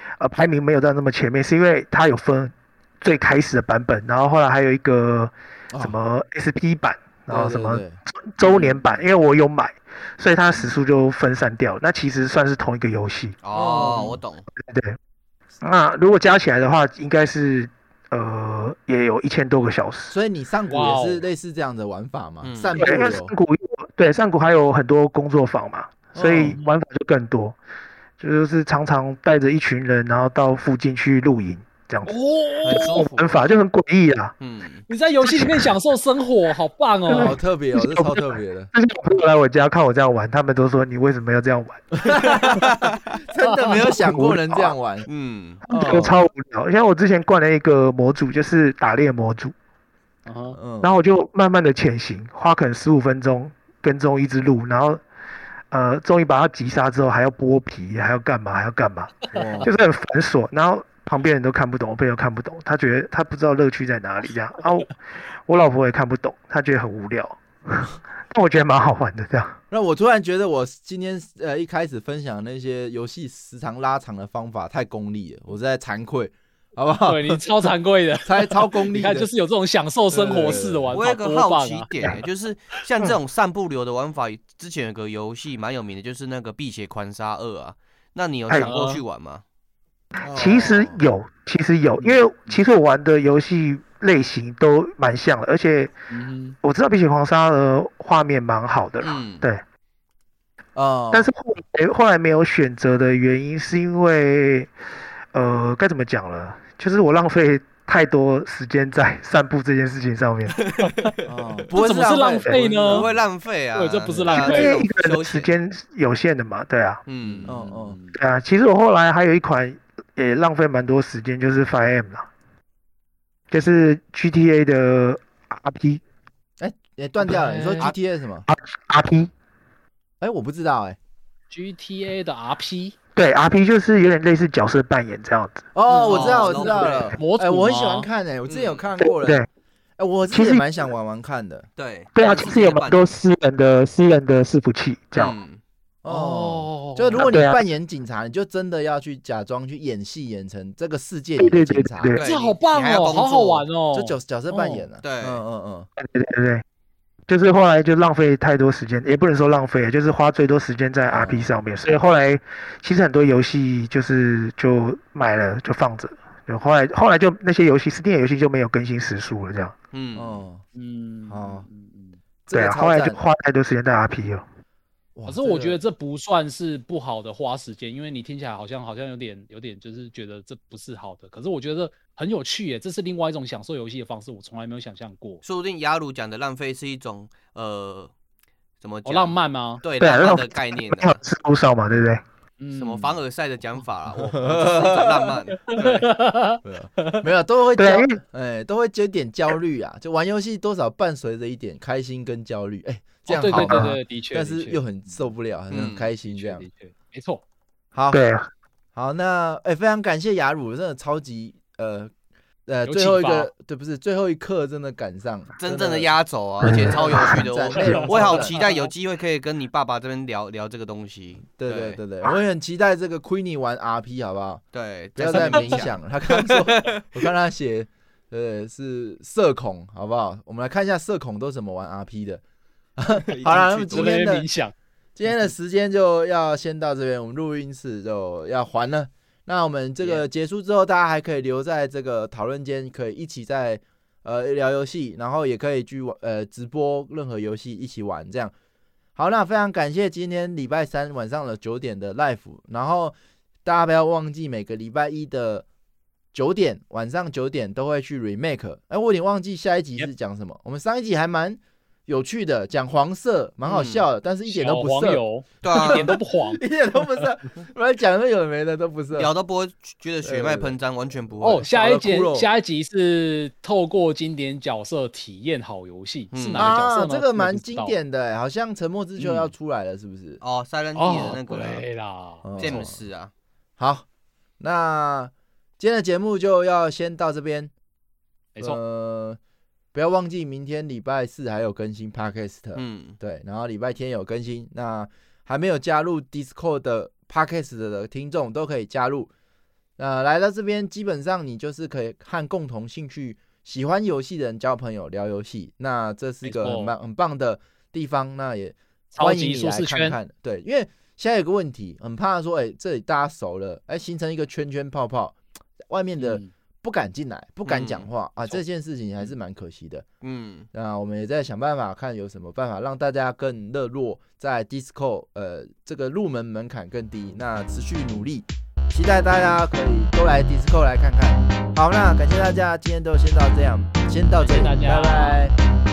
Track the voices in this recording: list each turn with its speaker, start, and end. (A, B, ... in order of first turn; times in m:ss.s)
0:00.2-0:13.4 A
0:05.7-0:06.0 B
0:07.3-0:08.8 B
0:13.4-0:14.4 C
0:13.5-0:14.2 B
0:13.8-0:14.1 D
0:14.6-0:15.0 A
0:15.6-0:20.1 A
0:20.1-0:23.3 B
0:20.7-0:21.2 D
0:22.4-0:22.8 C
0:22.8-0:27.6 A
0:26.1-0:26.6 B
0:28.2-0:32.1 A
0:32.0-0:33.0 D
0:32.6-0:33.2 C
0:32.7-0:34.3 A
0:34.4-0:34.9 C
0:34.9-0:37.4 D
0:35.2-0:35.7 A
0:37.1-0:41.9 A
0:37.2-0:38.7 B
0:42.0-0:45.1 B
0:44.0-0:44.4 A
0:45.1-0:45.6 C
0:45.7-0:49.5 A
0:45.7-0:46.2 B
0:50.2-0:50.6 D
0:50.5-0:50.9 B
0:50.8-0:55.0 A
0:55.7-1:04.9 A
0:59.3-0:59.7 B
1:05.5-1:09.6 A
1:09.7-1:17.4 B
1:17.1-1:21.9 D
1:18.2-1:19.3 B
1:20.1-1:21.0 B
1:20.9-1:29.4 C
1:28.6-1:29.0 D
1:30.2-1:31.0 B
1:30.3-1:35.9 A
1:32.0-1:32.6 D
1:36.1-1:36.6 D
1:36.6-1:39.6 A
1:39.0-1:39.4 C
1:40.7-1:41.3 B
1:41.1-1:44.7 A
1:45.3-1:50.6 A
1:50.8-1:51.1 D
1:51.2-1:53.2 B
1:51.7-1:53.1 D
1:52.9-1:55.5 C
1:53.7-1:54.8 D
1:54.1-1:54.4 B
1:54.3-1:57.0 A
1:57.1-1:57.5 C
1:57.2-1:58.2 D
1:57.4-1:58.0 B
1:58.1-2:02.2 A
2:03.5-2:06.0 A
2:06.6-2:08.5 B
2:07.2-2:07.9 D
2:08.5-2:09.3 A
2:10.2-2:11.0 B
2:11.5-2:12.9 D
2:13.2-2:15.7 A
2:15.7-2:19.4 B
2:15.9-2:18.1 D
2:16.0-2:17.1 C
2:18.5-2:18.8 C
2:19.0-2:19.5 A
2:20.0-2:21.7 B
2:20.3-2:20.6 A
2:21.8-2:23.1 C
2:22.1-2:25.3 A
2:25.1-2:25.6 C
2:26.0-2:32.1 B
2:26.0-2:27.3 D
2:27.2-2:27.6 A
2:31.4-2:32.2 A
2:32.1-2:33.7 C
2:32.2-2:34.9 D
2:33.9-2:35.9 B
2:35.0-2:35.4 C
2:36.0-2:36.6 A
2:37.3-2:49.7 A
2:41.1-2:41.5 B
2:49.9-2:50.4 C
2:50.1-2:50.6 B
2:50.7-2:52.2 D
2:51.3-2:51.6 B
2:52.4-2:53.2 B
2:52.5-2:54.4 A
2:55.1-2:55.8 B
2:55.3-3:05.4 D
3:05.4-3:08.1 C
3:08.8-3:11.2 C
3:09.0-3:09.8 D
3:10.0-3:12.2 A
3:12.6-3:13.1 D
3:12.7-3:16.1 C
3:14.4-3:15.3 B
3:15.7-3:17.2 D
3:16.6-3:26.7 B
3:17.8-3:18.2 A
3:23.3-3:24.8 D
3:23.5-3:24.0 A
3:25.7-3:26.1 C
3:26.3-3:27.4 D
3:27.9-3:28.2 B
3:28.1-3:28.5 A
3:28.9-3:32.1 B
3:32.6-3:38.6 B
3:32.8-3:33.5 D
3:35.6-3:42.0 C
3:36.6-3:37.3 A
3:37.8-3:38.8 D
3:41.6-3:44.6 B
3:44.7-3:47.2 C
3:45.2-3:52.4 B
3:45.3-3:45.7 D
3:53.0-3:54.5 B
3:53.3-3:54.3 C
3:53.9-3:54.7 D
3:55.2-4:08.5 B
4:09.2-4:15.6 B
4:16.3-4:29.3 B
4:23.7-4:24.0 C
4:24.5-4:26.6 D
4:25.6-4:26.1 C
4:29.1-4:31.7 C
4:30.2-4:30.8 B
4:31.4-4:37.9 D
4:31.4-4:32.5 B
4:36.3-4:36.9 C
4:36.6-4:40.4 B
4:40.4-4:41.8 C
4:41.0-4:42.8 D
4:42.4-4:42.9 B
4:42.6-4:43.3 C
4:43.8-4:44.0 B
4:44.6-4:47.7 B
4:48.6-4:49.4 B
4:49.9-4:59.3 B
4:52.7-4:53.2 C
5:00.0-5:20.0 B
5:06.4-5:06.9 D
5:09.2-5:10.2 D
5:16.2-5:16.5 D
5:17.6-5:18.6 C
5:20.2-5:20.7 C
5:20.7-5:35.5 B
5:34.4-5:35.5 D